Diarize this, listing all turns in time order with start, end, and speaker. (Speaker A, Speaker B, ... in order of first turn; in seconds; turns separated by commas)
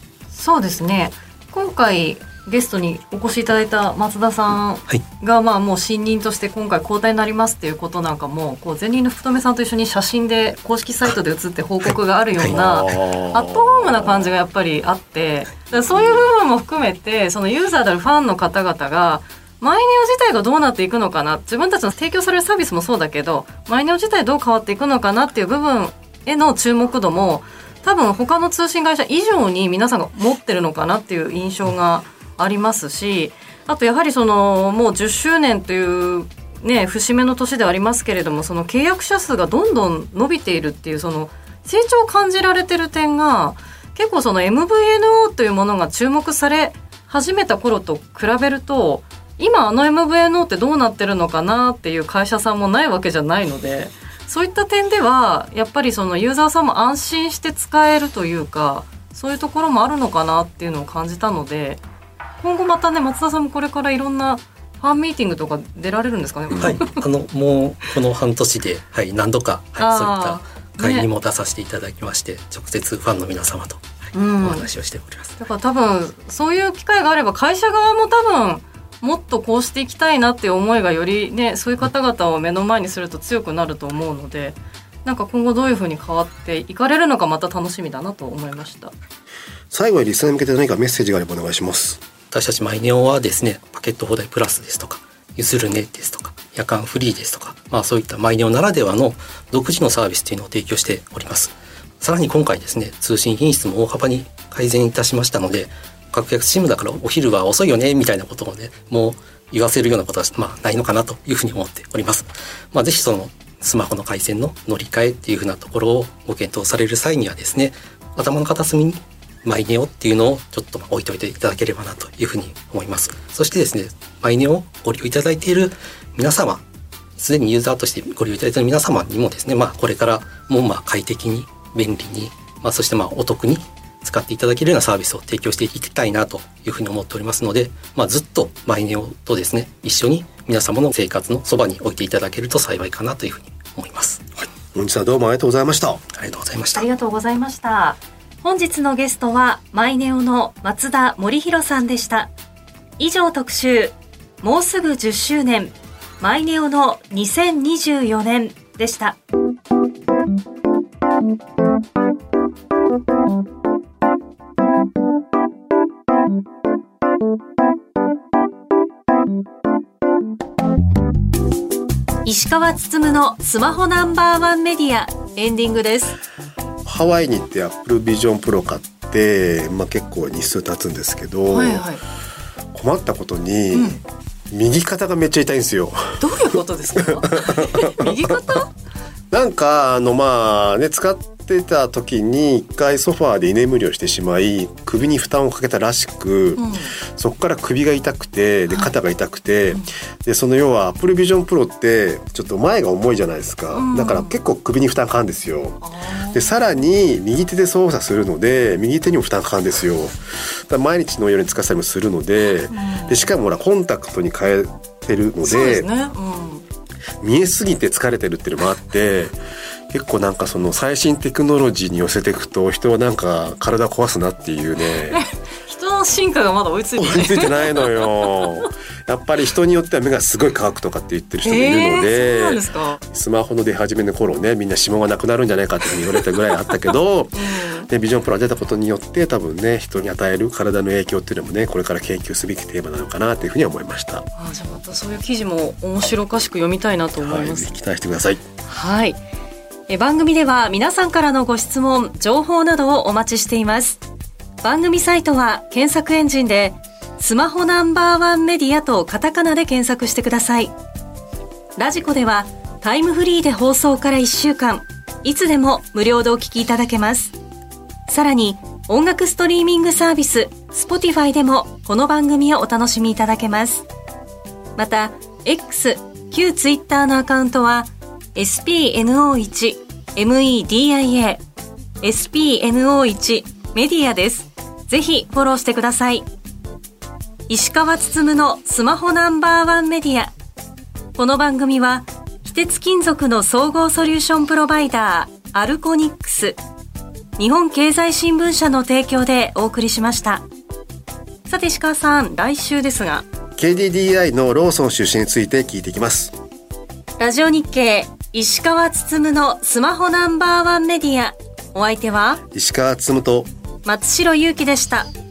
Speaker A: 0.3-61.8, Speaker B: 11.8-12.6, Speaker C: 12.5-14.3, Speaker C: 15.9-16.2, Speaker A: 62.4-67.0, Speaker B: 66.5-73.8, Speaker A: 69.8-71.1, Speaker A: 74.1-74.7, Speaker B: 74.4-75.4, Speaker A: 75.4-88.9, Speaker C: 89.7-92.0, Speaker B: 92.3-126.6, Speaker B: 127.2-144.5, Speaker C: 144.7-146.0, Speaker B: 146.1-146.8, Speaker D: 146.8-152.3, Speaker D: 153.0-159.2, Speaker D: 172.2-176.2, Speaker C: 176.8-181.9, Speaker A: 181.5-182.0, Speaker C: 182.7-188.6, Speaker A: 183.7-184.0, Speaker A: 186.2-188.7, Speaker C: 189.3-215.9, Speaker A: 196.6-196.9, Speaker A: 203.7-204.3, Speaker A: 205.8-206.5, Speaker A: 212.7-213.2, Speaker A: 215.4-216.6, Speaker C: 217.2-219.4, Speaker C: 219.9-225.3, Speaker A: 225.1-228.7, Speaker C: 227.0-244.3, Speaker A: 231.4-233.0, Speaker A: 237.4-237.9, Speaker A: 244.3-247.7, Speaker C: 247.2-248.4, Speaker D: 248.7-249.2, Speaker D: 249.9-254.0, Speaker D: 254.6-260.7, Speaker D: 261.8-267.4, Speaker D: 268.1-273.9, Speaker D: 274.8-281.4, Speaker D: 282.0-286.3, Speaker D: 287.5-290.3, Speaker D: 291.1-296.6, Speaker D: 297.4-300.4, Speaker D: 301.5-303.2, Speaker C: 303.6-306.3, Speaker D: 307.2-312.4, Speaker C: 312.5-313.5, Speaker D: 313.8-315.1